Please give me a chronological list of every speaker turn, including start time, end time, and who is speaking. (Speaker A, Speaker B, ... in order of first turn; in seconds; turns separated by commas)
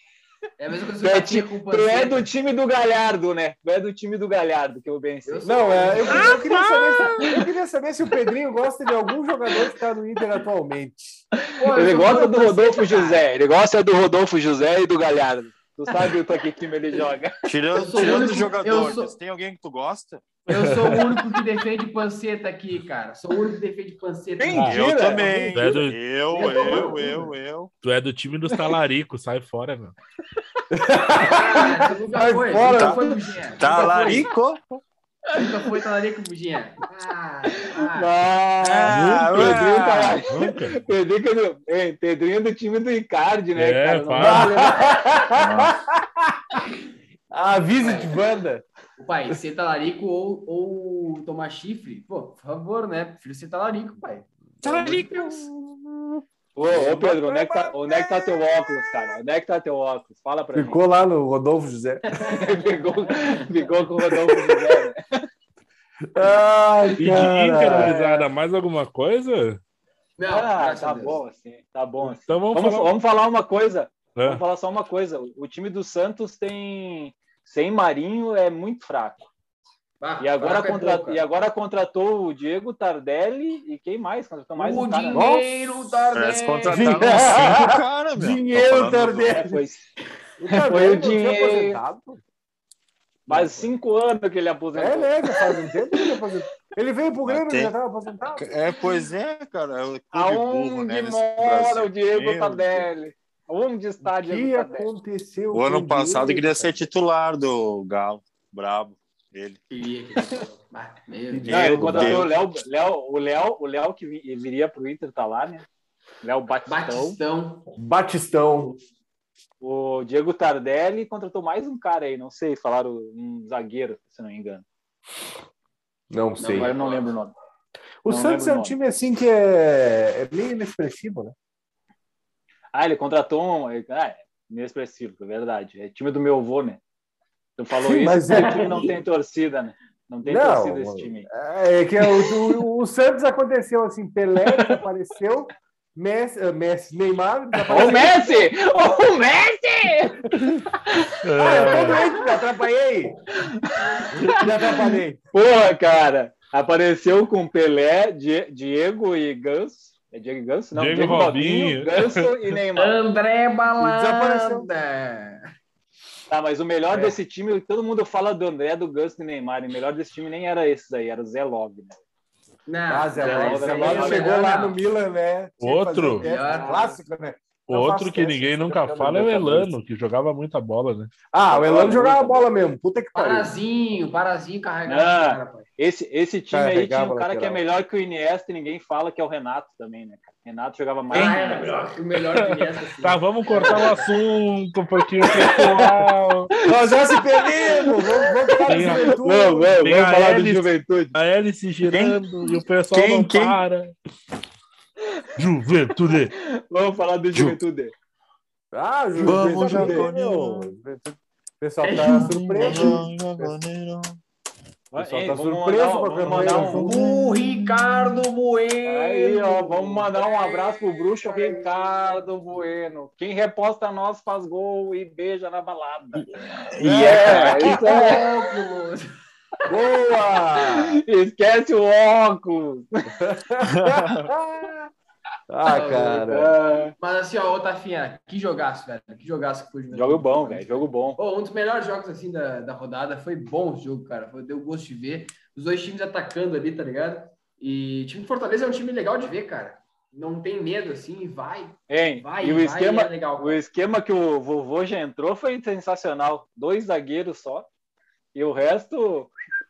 Speaker A: 0.6-2.3, Speaker B: 1.0-7.4, Speaker A: 5.2-6.3, Speaker C: 5.4-11.2, Speaker B: 11.4-17.3, Speaker A: 11.6-13.2, Speaker D: 17.4-20.3, Speaker A: 17.7-19.1, Speaker A: 20.5-24.8, Speaker E: 20.5-21.1, Speaker B: 24.4-25.2, Speaker C: 24.5-25.8, Speaker D: 24.6-27.7, Speaker E: 25.5-26.0, Speaker A: 26.3-27.0, Speaker C: 26.4-27.2, Speaker E: 27.8-29.9, Speaker C: 30.7-33.2, Speaker A: 31.2-34.3, Speaker D: 32.6-33.0, Speaker D: 33.6-34.8, Speaker A: 35.3-38.1, Speaker B: 37.8-45.2, Speaker D: 38.6-40.2, Speaker E: 38.9-39.7, Speaker E: 40.3-40.8, Speaker E: 43.5-44.6, Speaker C: 44.2-46.4, Speaker D: 45.3-45.8, Speaker C: 47.3-48.6, Speaker A: 47.8-48.1, Speaker A: 49.0-54.3, Speaker C: 54.6-55.7, Speaker D: 54.6-55.5, Speaker B: 56.5-60.8, Speaker C: 56.6-58.4, Speaker C: 60.5-62.0, Speaker A: 62.1-63.4, Speaker B: 62.3-65.0, Speaker C: 66.1-68.0, Speaker E: 67.0-69.6, Speaker B: 67.8-68.1, Speaker A: 70.2-71.2, Speaker B: 70.3-79.2, Speaker E: 72.3-72.9, Speaker E: 74.2-74.4, Speaker A: 80.0-81.2, Speaker B: 80.2-85.3, Speaker A: 84.5-87.2, Speaker C: 85.1-85.4, Speaker D: 86.1-89.4, Speaker C: 86.7-89.6, Speaker B: 89.3-89.8, Speaker C: 90.4-92.2, Speaker B: 90.5-91.8, Speaker B: 93.3-95.5, Speaker C: 93.3-93.7, Speaker C: 94.7-98.6, Speaker D: 97.2-97.7, Speaker D: 98.3-102.9, Speaker B: 100.1-104.9, Speaker C: 104.0-106.8, Speaker D: 105.5-109.6, Speaker A: 109.7-111.5, Speaker C: 111.3-112.3, Speaker D: 111.5-112.4, Speaker B: 111.5-115.7, Speaker B: 116.2-117.2, Speaker A: 116.7-117.7, Speaker C: 117.8-118.8, Speaker B: 119.6-124.6, Speaker C: 126.1-126.7, Speaker A: 126.4-127.0, Speaker B: 126.5-127.3, Speaker C: 128.0-131.3, Speaker B: 128.1-128.8, Speaker B: 132.7-136.8, Speaker B: 137.6-141.3, Speaker C: 137.8-138.9, Speaker A: 138.3-138.6, Speaker C: 140.2-148.4, Speaker B: 147.7-150.2, Speaker E: 151.2-152.1, Speaker C: 151.4-153.2, Speaker B: 153.4-154.4, Speaker C: 154.3-155.2, Speaker B: 155.3-163.0, Speaker E: 160.7-162.5, Speaker A: 162.8-165.4, Speaker C: 163.8-164.7, Speaker B: 166.3-172.0, Speaker A: 166.9-167.2, Speaker A: 172.7-174.8, Speaker C: 172.9-179.7, Speaker B: 173.2-174.6, Speaker E: 175.6-176.2, Speaker A: 176.2-176.9, Speaker B: 176.3-176.9, Speaker E: 177.7-181.1, Speaker C: 181.3-183.5, Speaker B: 181.5-182.4, Speaker A: 183.1-185.7, Speaker B: 184.8-191.8, Speaker C: 186.5-187.6, Speaker A: 191.1-194.1, Speaker E: 192.3-196.5, Speaker B: 195.3-195.8, Speaker B: 196.5-196.8, Speaker C: 196.7-199.8, Speaker B: 197.4-201.1, Speaker E: 198.7-199.2, Speaker E: 199.8-203.9, Speaker D: 201.9-202.2, Speaker D: 202.9-203.6, Speaker E: 205.4-206.3, Speaker B: 206.1-207.9, Speaker D: 207.3-207.6, Speaker C: 208.7-213.5, Speaker D: 209.2-210.7, Speaker B: 209.8-210.0, Speaker A: 211.8-212.9, Speaker D: 212.3-214.2, Speaker B: 214.9-216.9, Speaker C: 214.9-217.1, Speaker A: 216.6-222.1, Speaker D: 216.8-217.4, Speaker B: 218.8-228.3, Speaker D: 226.6-227.8, Speaker A: 226.9-229.0, Speaker C: 229.7-231.0, Speaker B: 230.7-233.1, Speaker C: 233.2-234.9, Speaker D: 233.7-234.3, Speaker C: 235.5-236.6, Speaker A: 235.7-236.3, Speaker B: 236.3-236.9, Speaker A: 237.0-253.6, Speaker B: 239.9-241.2, Speaker B: 251.9-257.7, Speaker B: 258.3-259.3